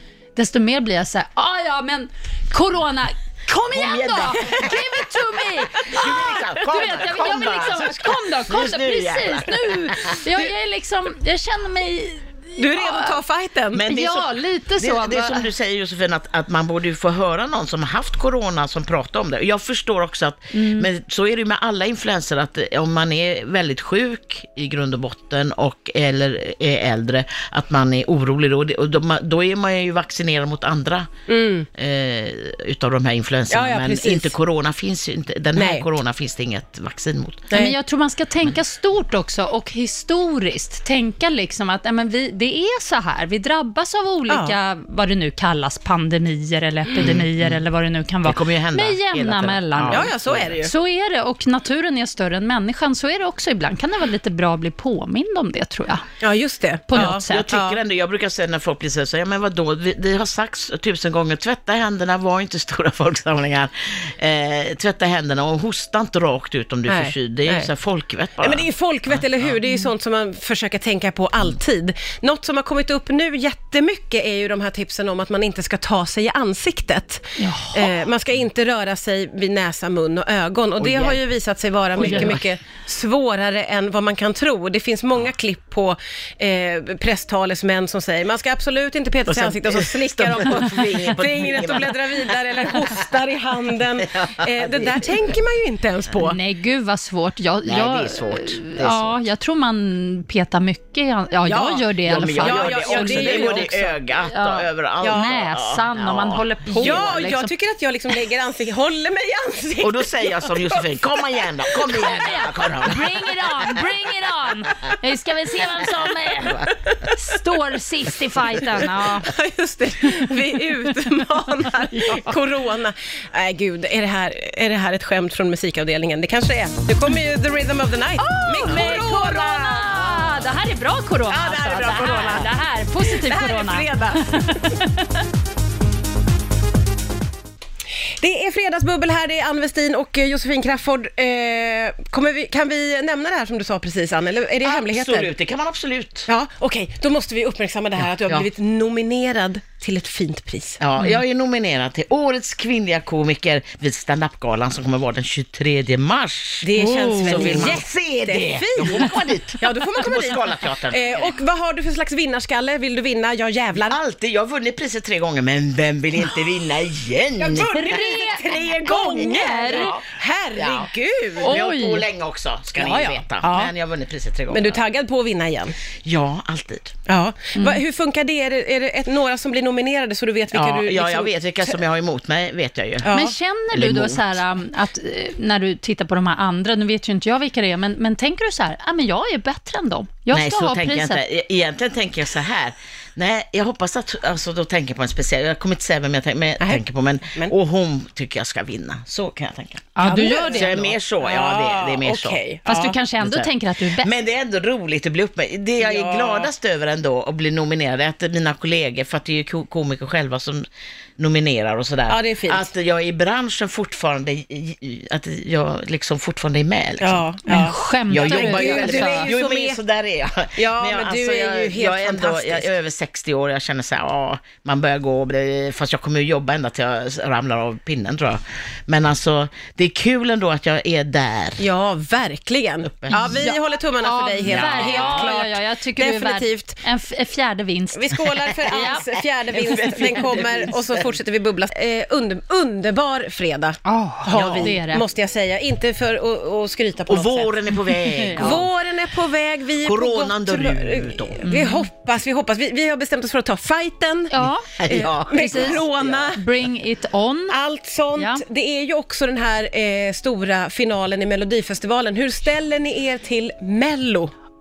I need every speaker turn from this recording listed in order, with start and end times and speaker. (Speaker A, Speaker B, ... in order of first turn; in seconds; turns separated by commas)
Speaker A: 0.3-13.2, Speaker B: 3.7-4.9, Speaker B: 5.9-10.4, Speaker C: 12.6-13.9, Speaker B: 13.7-31.1, Speaker A: 13.9-15.5, Speaker A: 20.5-20.9, Speaker C: 31.3-31.7, Speaker B: 31.7-37.5, Speaker C: 33.5-34.3, Speaker C: 35.5-35.9, Speaker C: 37.5-37.8, Speaker A: 37.5-56.0, Speaker C: 44.3-44.6, Speaker B: 46.9-47.6, Speaker B: 48.2-50.5, Speaker C: 49.9-50.7, Speaker C: 56.2-57.8, Speaker A: 56.9-57.5, Speaker B: 56.9-68.7, Speaker C: 66.8-67.7, Speaker C: 68.4-96.4, Speaker A: 77.4-77.9, Speaker B: 80.8-81.2, Speaker B: 81.9-82.4, Speaker A: 82.0-82.3, Speaker B: 89.3-92.7, Speaker B: 94.0-95.2, Speaker A: 96.2-107.5, Speaker B: 97.6-99.2, Speaker C: 101.5-103.8, Speaker B: 102.0-107.2, Speaker C: 105.0-105.4, Speaker C: 106.7-112.1, Speaker B: 109.8-113.3, Speaker A: 111.9-119.3, Speaker C: 116.6-116.9, Speaker C: 118.8-130.0, Speaker A: 120.3-120.7, Speaker A: 121.5-122.3, Speaker A: 128.2-135.2, Speaker B: 130.1-130.4, Speaker C: 131.3-132.5, Speaker B: 131.6-132.5, Speaker C: 133.0-134.8, Speaker C: 138.2-145.3, Speaker B: 144.6-146.3, Speaker C: 146.3-150.8, Speaker B: 150.8-161.3, Speaker C: 156.6-164.0, Speaker A: 156.8-157.7, Speaker B: 163.7-168.1, Speaker C: 167.4-171.6, Speaker A: 167.6-169.9, Speaker B: 168.8-170.0, Speaker B: 170.6-174.8, Speaker A: 171.4-172.0, Speaker C: 172.8-173.7, Speaker C: 174.5-175.8, Speaker B: 176.0-176.9, Speaker C: 177.1-181.8, Speaker A: 177.5-177.8, Speaker B: 180.5-183.1, Speaker C: 183.0-183.3, Speaker A: 183.1-191.2, Speaker B: 183.7-184.4, Speaker B: 190.3-202.4, Speaker C: 196.6-197.5, Speaker A: 199.9-200.8, Speaker C: 200.0-202.9, Speaker A: 202.7-204.1, Speaker B: 203.2-210.7, Speaker C: 205.8-206.5, Speaker B: 211.2-231.6, Speaker C: 212.1-212.7, Speaker C: 217.0-219.8, Speaker A: 217.5-219.3, Speaker C: 220.6-222.7, Speaker C: 231.6-236.8, Speaker B: 232.8-233.4, Speaker A: 233.1-239.1, Speaker B: 234.4-235.3, Speaker C: 237.9-247.6, Speaker B: 238.6-241.1, Speaker A: 239.9-240.2, Speaker A: 243.8-245.0, Speaker B: 244.3-244.7, Speaker B: 247.1-248.7, Speaker A: 248.1-248.6, Speaker C: 248.3-256.4, Speaker B: 249.8-251.4, Speaker A: 251.4-251.9, Speaker A: 254.3-254.7, Speaker B: 254.8-256.3, Speaker A: 255.3-257.6, Speaker C: 257.5-264.3, Speaker A: 258.1-258.4